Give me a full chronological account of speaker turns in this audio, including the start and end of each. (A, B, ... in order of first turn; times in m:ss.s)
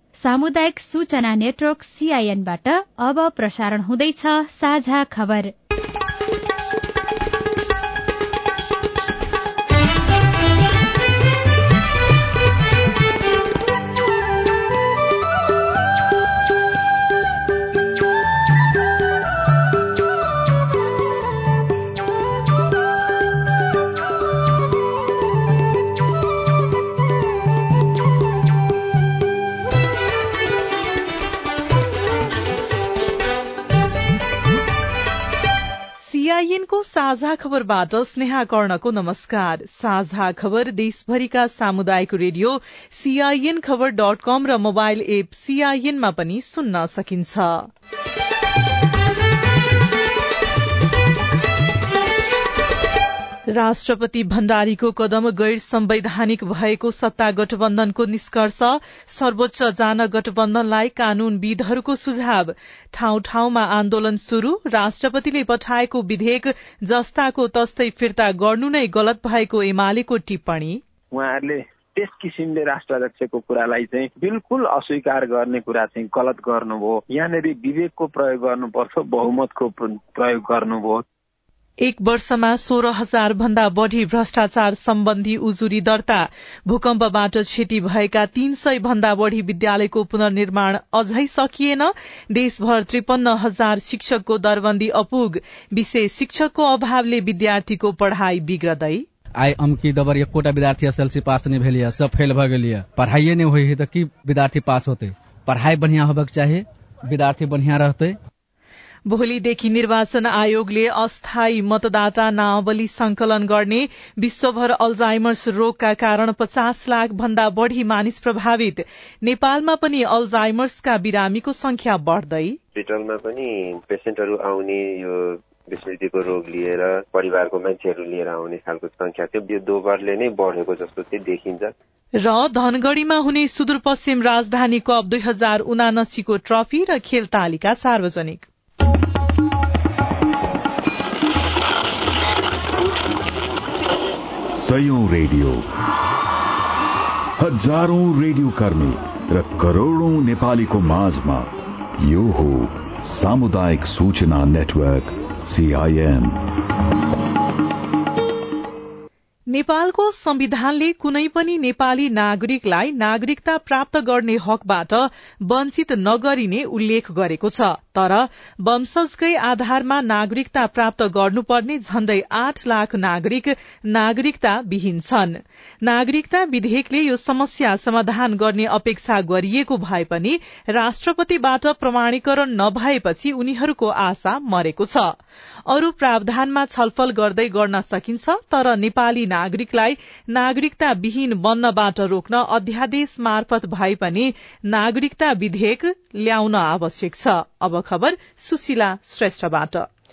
0:00.2-0:05.5 A
0:36.0-0:47.7 B
0:53.5-1:10.8 B
1:11.1-1:21.0 C
1:21.8-1:39.0 B
1:39.4-1:48.2 D
1:49.1-2:02.6 B
2:02.7-2:11.7 E
2:12.2-2:18.4 B
2:24.5-2:25.7 F
2:27.4-2:36.4 F
2:39.5-3:05.1 B
3:05.7-3:19.9 B